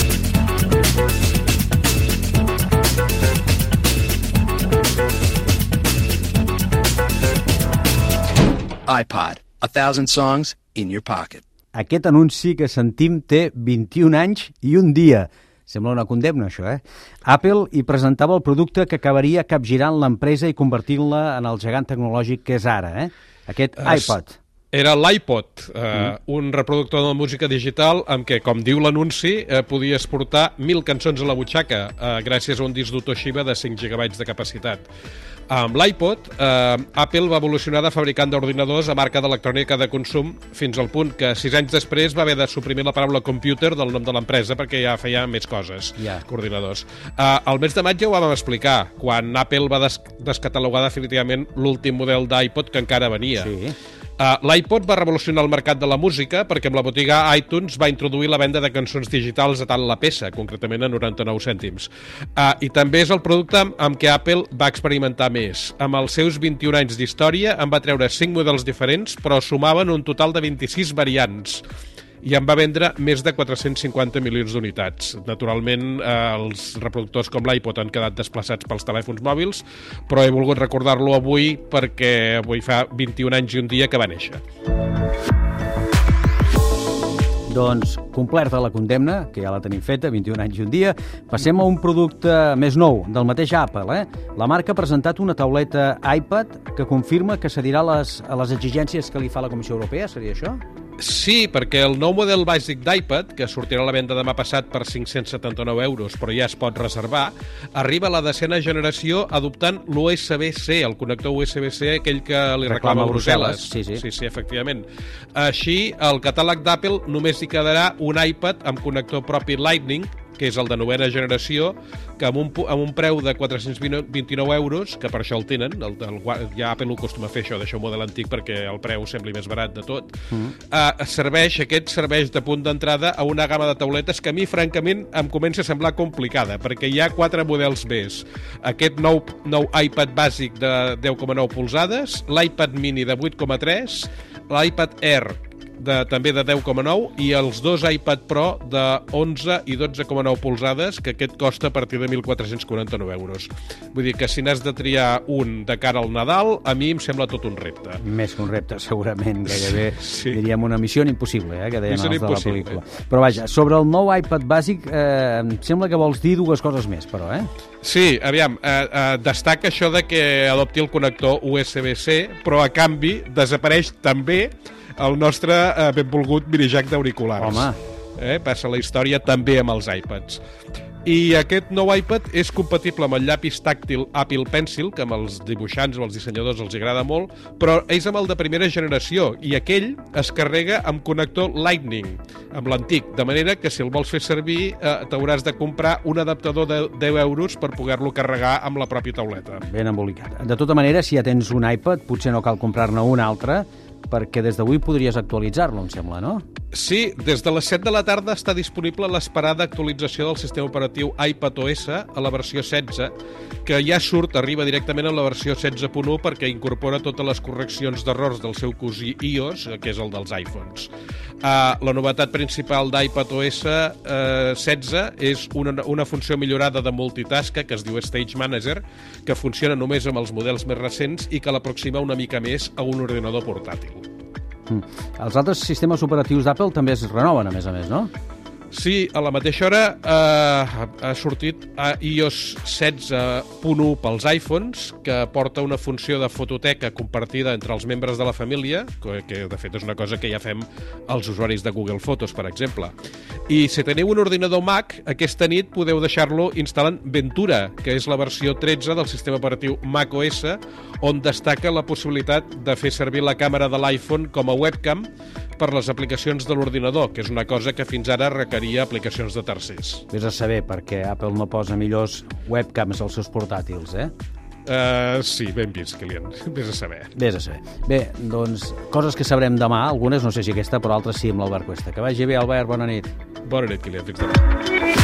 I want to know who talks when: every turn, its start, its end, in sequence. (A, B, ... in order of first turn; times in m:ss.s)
0:08.9-0:11.4 A
0:11.7-0:24.4 B
0:23.8-0:24.1 C
0:24.7-0:34.9 C
0:35.5-0:53.5 C
0:46.0-0:46.2 B
0:53.4-0:53.8 B
0:54.2-1:11.6 C
1:12.2-1:24.4 C
1:27.5-1:40.6 B
1:41.0-2:10.2 C
1:52.6-1:54.0 B
2:10.7-2:38.0 C
2:38.0-2:47.5 B
2:39.5-2:40.4 C
2:41.9-2:42.8 C
2:47.8-3:00.4 C
2:57.4-2:57.8 B
3:01.0-3:19.6 C
3:19.6-3:26.4 B
3:26.7-3:33.1 C
3:33.6-3:40.9 C
3:41.4-3:54.1 C
3:54.7-3:58.1 B
3:58.7-4:12.9 C
4:13.5-4:30.0 C
4:30.1-4:34.1 B
4:34.6-4:37.1 C
4:37.2-4:43.1 B
4:43.4-4:44.4 C